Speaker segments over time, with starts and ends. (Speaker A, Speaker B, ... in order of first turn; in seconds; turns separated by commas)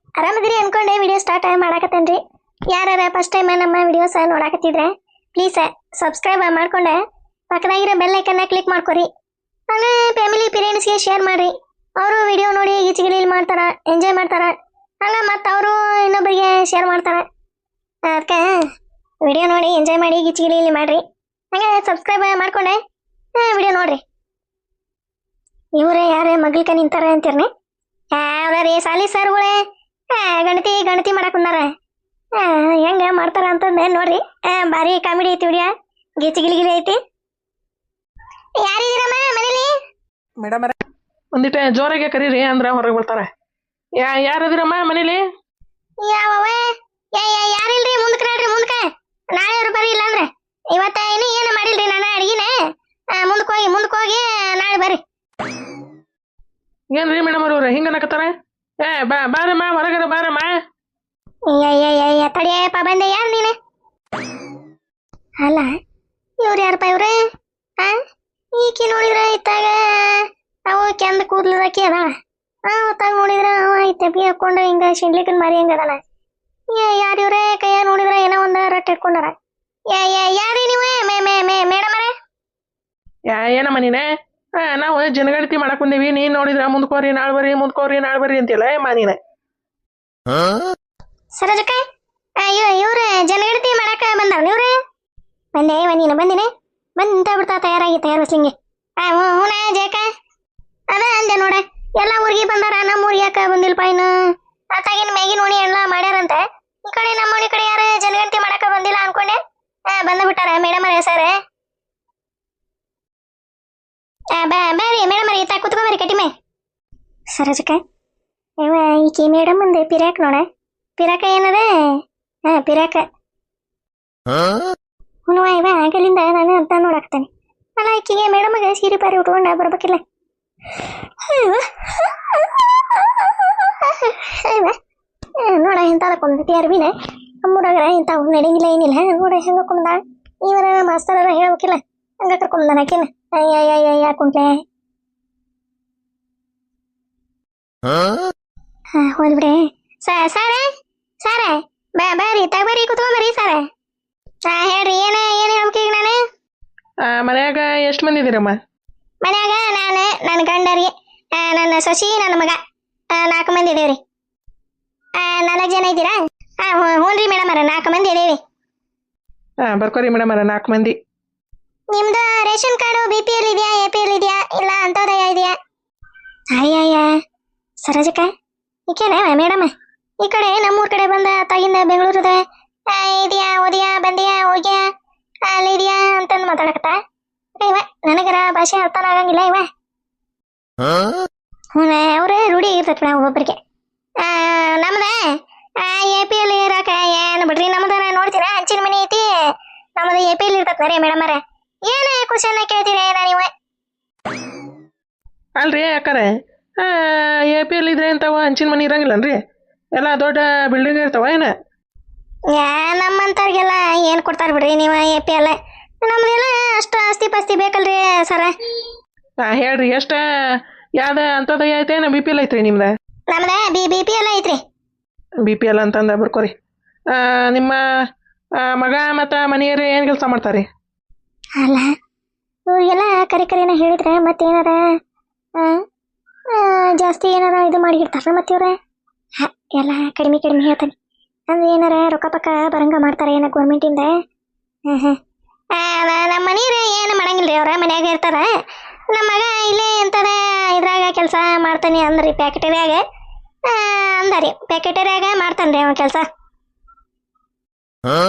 Speaker A: 0.2-7.0, Speaker A: 7.5-9.1, Speaker A: 9.7-17.3, Speaker A: 18.1-18.7, Speaker A: 19.2-22.8, Speaker A: 23.4-24.0, Speaker A: 25.8-27.5, Speaker A: 28.1-29.6, Speaker A: 30.1-31.7, Speaker A: 32.4-37.0, Speaker A: 38.6-39.7, Speaker B: 40.4-40.8, Speaker B: 41.4-43.3, Speaker B: 44.0-45.2, Speaker A: 46.0-52.6, Speaker A: 53.2-55.0, Speaker B: 56.9-58.3, Speaker B: 58.8-60.5, Speaker A: 61.5-63.6, Speaker A: 65.4-65.7, Speaker A: 66.4-67.2, Speaker A: 68.5-72.2, Speaker A: 72.7-76.0, Speaker A: 76.7-79.4, Speaker A: 79.9-82.1, Speaker B: 83.3-89.2, Speaker A: 91.3-91.8, Speaker A: 92.4-94.8, Speaker A: 95.5-100.1, Speaker A: 100.9-104.2, Speaker A: 104.7-111.4, Speaker A: 114.4-116.3, Speaker A: 117.3-117.8, Speaker A: 118.6-120.5, Speaker A: 121.0-123.0, Speaker A: 125.3-130.0, Speaker A: 130.7-134.8, Speaker A: 135.4-144.6, Speaker A: 148.9-150.7, Speaker A: 151.2-153.6, Speaker A: 154.5-156.2, Speaker B: 157.1-158.6, Speaker A: 159.2-162.6, Speaker A: 163.1-164.0, Speaker A: 165.2-168.4, Speaker B: 169.6-170.9, Speaker A: 171.9-175.6, Speaker A: 176.5-177.1, Speaker A: 177.8-178.3, Speaker A: 178.9-184.9, Speaker A: 185.5-187.0, Speaker A: 187.6-189.7, Speaker A: 191.7-193.6, Speaker A: 194.2-203.5, Speaker B: 205.6-209.4, Speaker B: 210.0-211.5, Speaker A: 212.5-218.5, Speaker B: 219.4-220.2, Speaker B: 221.0-222.9, Speaker A: 223.3-224.6, Speaker B: 225.4-226.5, Speaker B: 227.1-227.8, Speaker B: 228.6-230.7, Speaker A: 231.6-231.9, Speaker A: 232.7-234.8, Speaker A: 235.6-235.8, Speaker A: 236.5-238.8, Speaker A: 239.4-240.9, Speaker A: 241.5-244.1, Speaker A: 244.9-245.2, Speaker A: 245.7-248.5, Speaker A: 249.1-253.0, Speaker A: 253.7-256.3